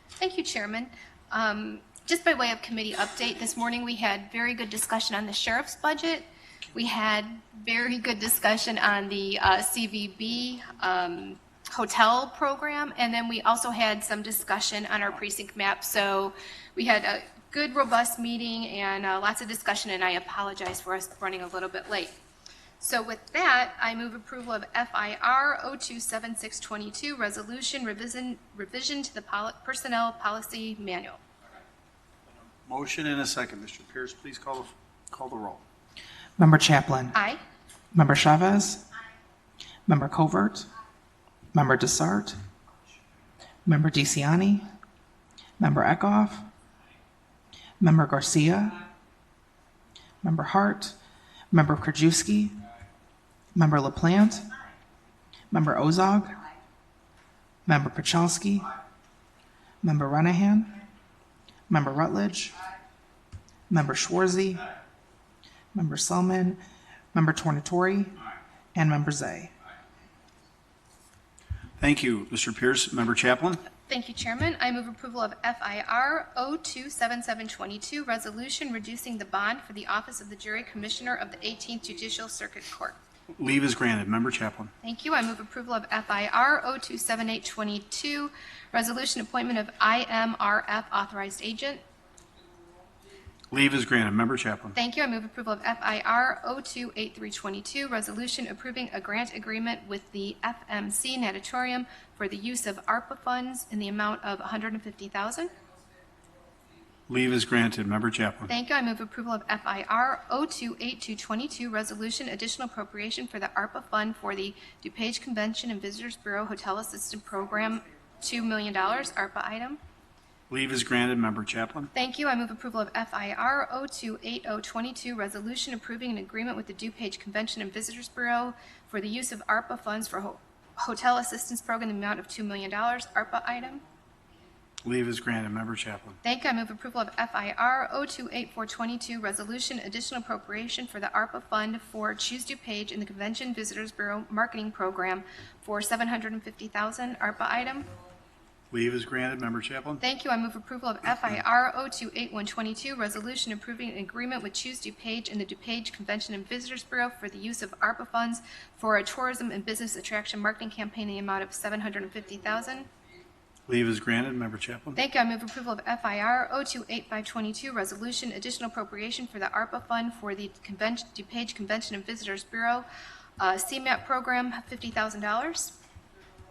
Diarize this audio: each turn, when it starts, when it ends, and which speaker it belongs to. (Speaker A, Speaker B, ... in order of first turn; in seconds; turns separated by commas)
Speaker A: 0.2-22.2, Speaker A: 22.8-31.2, Speaker B: 32.6-35.6, Speaker C: 36.4-37.2, Speaker A: 37.1-37.4, Speaker C: 37.9-38.9, Speaker C: 39.9-40.7, Speaker C: 41.5-42.4, Speaker C: 43.6-44.7, Speaker C: 45.6-46.5, Speaker C: 47.8-48.8, Speaker C: 50.2-51.0, Speaker C: 51.5-52.6, Speaker C: 53.5-54.5, Speaker C: 55.5-56.4, Speaker C: 57.7-58.7, Speaker C: 59.8-60.8, Speaker C: 61.7-62.6, Speaker C: 63.7-64.7, Speaker C: 65.7-66.6, Speaker C: 67.1-68.2, Speaker C: 68.8-69.5, Speaker B: 71.8-73.6, Speaker A: 73.9-83.0, Speaker B: 83.4-84.7, Speaker A: 84.8-91.8, Speaker B: 93.5-94.8, Speaker A: 94.8-105.5, Speaker B: 107.1-108.5, Speaker A: 108.5-119.8, Speaker B: 120.5-121.9, Speaker A: 121.9-133.8, Speaker B: 134.8-136.2, Speaker A: 136.2-147.9, Speaker B: 148.7-150.0, Speaker A: 150.0-162.9, Speaker B: 163.7-165.0, Speaker A: 165.0-172.9, Speaker A: 173.4-175.8